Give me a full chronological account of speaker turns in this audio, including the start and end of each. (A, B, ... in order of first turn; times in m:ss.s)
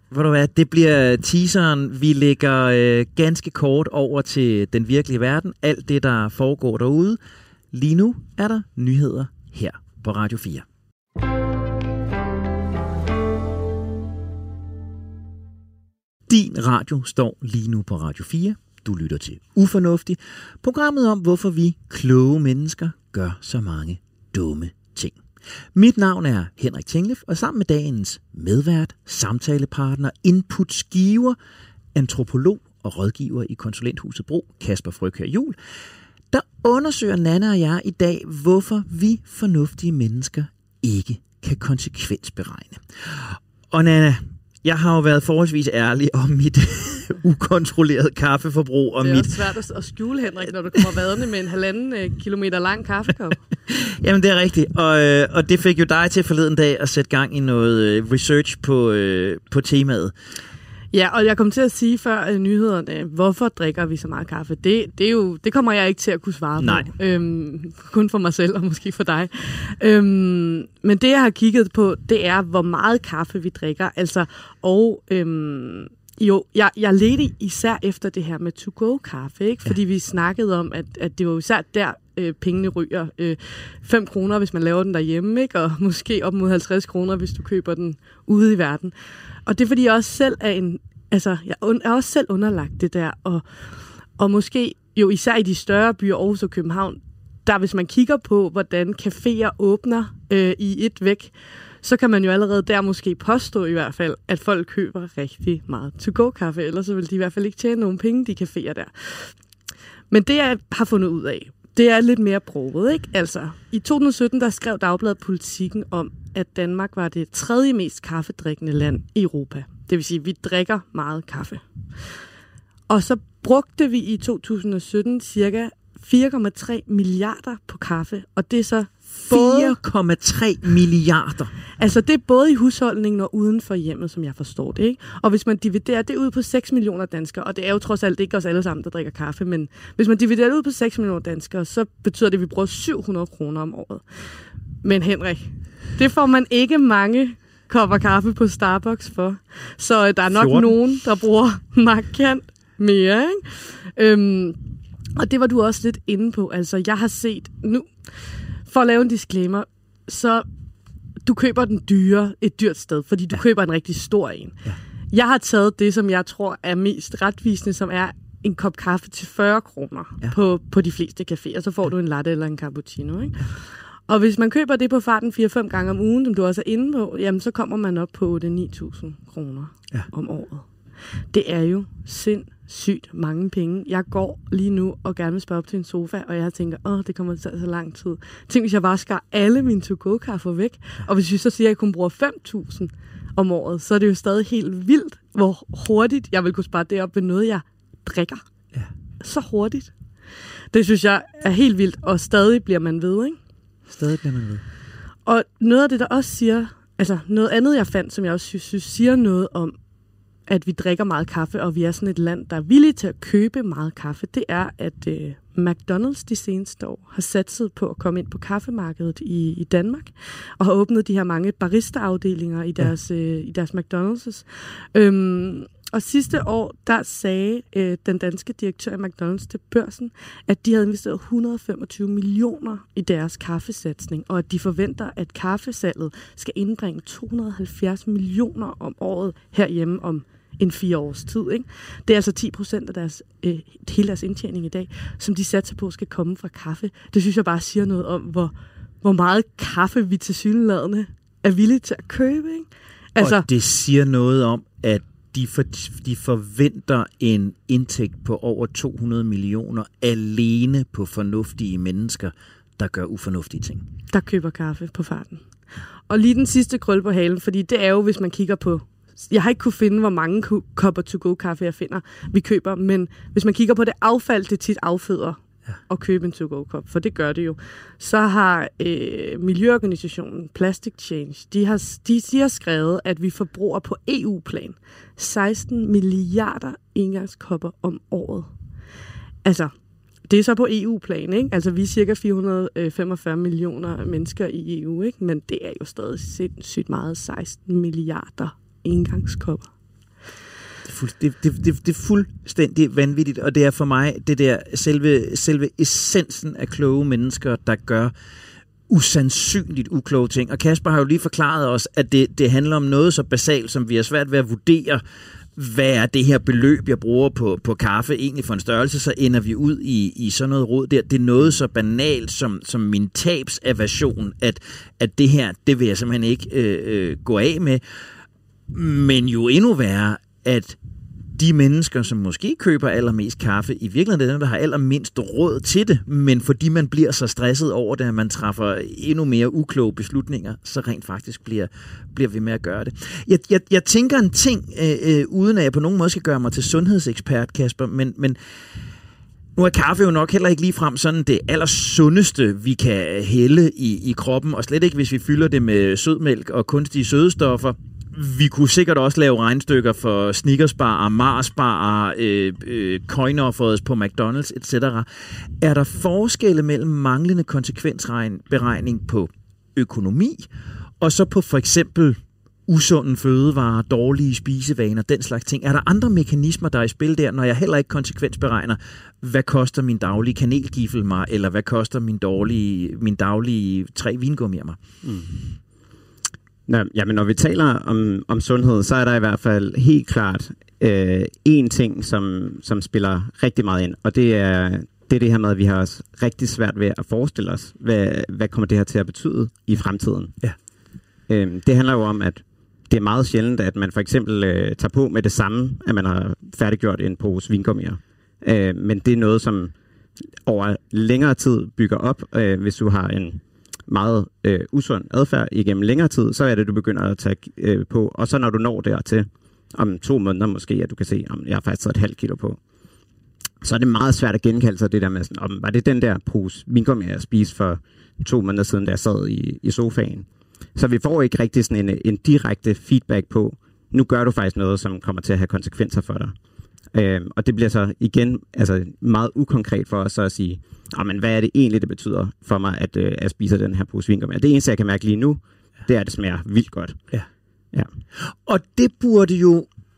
0:00.1-0:07.2 A
0:07.7-0:10.6 A
0:16.3-0:25.2 A
0:25.8-0:31.4 A
0:32.0-0:35.6 A
0:36.3-0:49.4 A
0:49.0-0:53.4 B
0:53.7-1:00.1 A
1:00.9-1:28.9 B
1:06.6-1:06.9 A
1:29.5-1:33.4 B
1:34.2-1:49.3 B
1:50.1-2:01.6 B
2:02.9-2:09.8 B
2:09.2-2:11.5 A
2:11.8-2:24.0 B
2:24.8-2:34.6 B
2:30.3-2:30.8 A
2:35.2-2:37.9 B
2:38.7-2:40.5 B
2:41.2-2:44.6 B
2:45.1-2:53.5 B
2:54.1-3:00.7 B
3:01.3-3:18.5 B
3:19.2-3:19.9 B
3:20.7-3:23.4 B
3:23.9-3:24.6 A
3:25.3-3:29.8 B
3:30.5-4:13.5 B
4:13.2-4:23.8 A
4:24.1-4:25.4 B
4:26.1-4:48.5 B
4:49.4-4:49.7 B
4:50.3-4:59.7 B
5:00.9-5:08.1 A
5:08.9-5:15.0 A
5:15.6-5:27.8 A
5:28.7-5:30.8 A
5:31.4-5:48.4 A
5:49.6-6:05.1 A
6:05.6-6:10.5 A
6:11.0-6:24.8 A
6:25.0-6:25.4 C
6:26.7-6:40.4 C
6:41.3-6:49.7 C
6:50.4-7:02.6 C
7:03.6-7:16.3 C
7:16.9-7:27.1 C
7:28.2-7:29.7 A